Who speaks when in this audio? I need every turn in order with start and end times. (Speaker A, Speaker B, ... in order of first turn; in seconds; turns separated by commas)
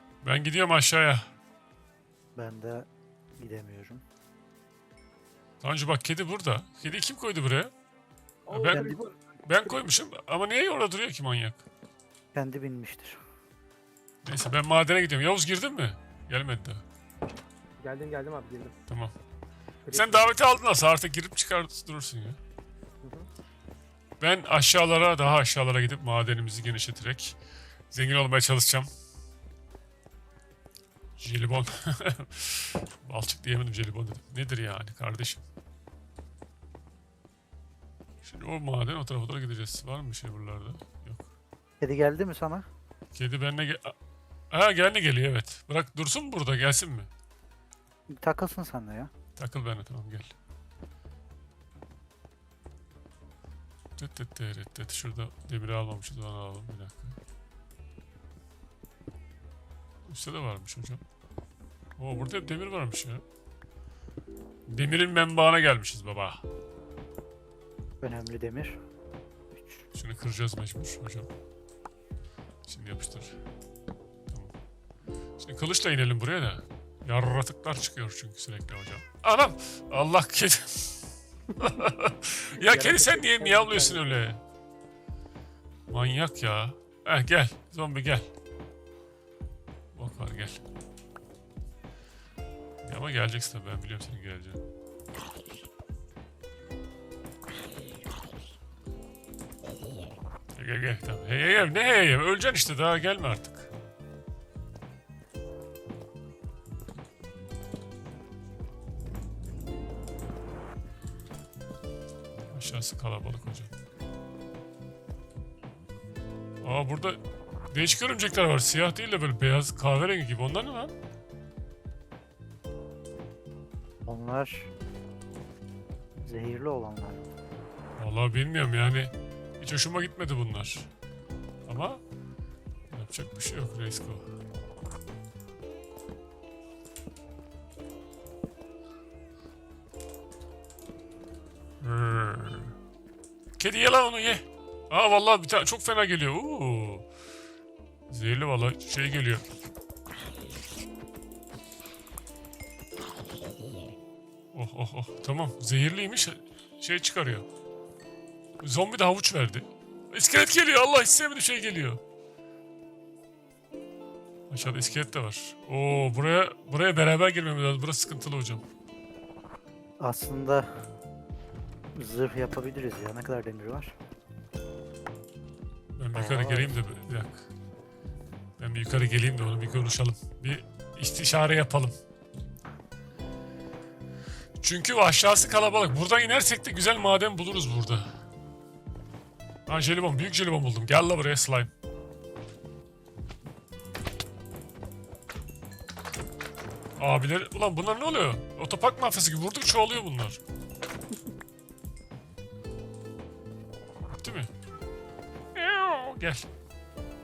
Speaker A: 0.2-1.3, Speaker B: 2.4-4.0, Speaker A: 5.6-7.7, Speaker C: 8.5-9.2, Speaker A: 8.5-11.6, Speaker B: 8.7-9.0, Speaker B: 12.3-13.2, Speaker A: 14.2-16.8, Speaker C: 17.8-18.8, Speaker A: 18.9-19.1, Speaker C: 19.8-20.3, Speaker A: 19.9-22.4, Speaker C: 23.0-23.3, Speaker A: 24.2-27.4, Speaker A: 27.9-28.9, Speaker A: 31.2-35.4, Speaker A: 38.2-41.2, Speaker B: 41.8-42.7, Speaker A: 43.1-44.0, Speaker A: 44.5-47.1, Speaker B: 48.1-49.1, Speaker A: 49.4-50.3, Speaker A: 54.0-57.2, Speaker A: 60.1-61.0, Speaker A: 62.0-63.2, Speaker A: 64.7-66.4, Speaker B: 68.0-68.8, Speaker A: 69.9-71.3, Speaker A: 72.7-73.3, Speaker A: 75.4-84.4, Speaker C: 82.5-84.3, Speaker A: 85.9-88.3, Speaker A: 89.9-90.6, Speaker A: 92.8-94.6, Speaker A: 100.6-103.7, Speaker A: 112.5-113.7, Speaker A: 116.6-117.2, Speaker A: 117.7-121.0, Speaker B: 124.0-124.7, Speaker B: 126.2-127.3, Speaker A: 128.0-130.9, Speaker A: 131.7-132.0, Speaker A: 132.9-134.2, Speaker A: 141.8-142.7, Speaker A: 143.6-147.1, Speaker A: 148.1-149.4, Speaker A: 154.5-157.4, Speaker A: 158.6-162.0, Speaker A: 164.5-168.7, Speaker B: 164.6-165.0, Speaker B: 170.0-170.8, Speaker B: 171.9-173.9, Speaker A: 175.9-177.5, Speaker B: 176.1-176.7, Speaker A: 178.6-182.0, Speaker A: 184.6-188.1, Speaker A: 189.7-191.7, Speaker A: 197.0-200.4, Speaker A: 204.2-204.5, Speaker A: 205.5-206.5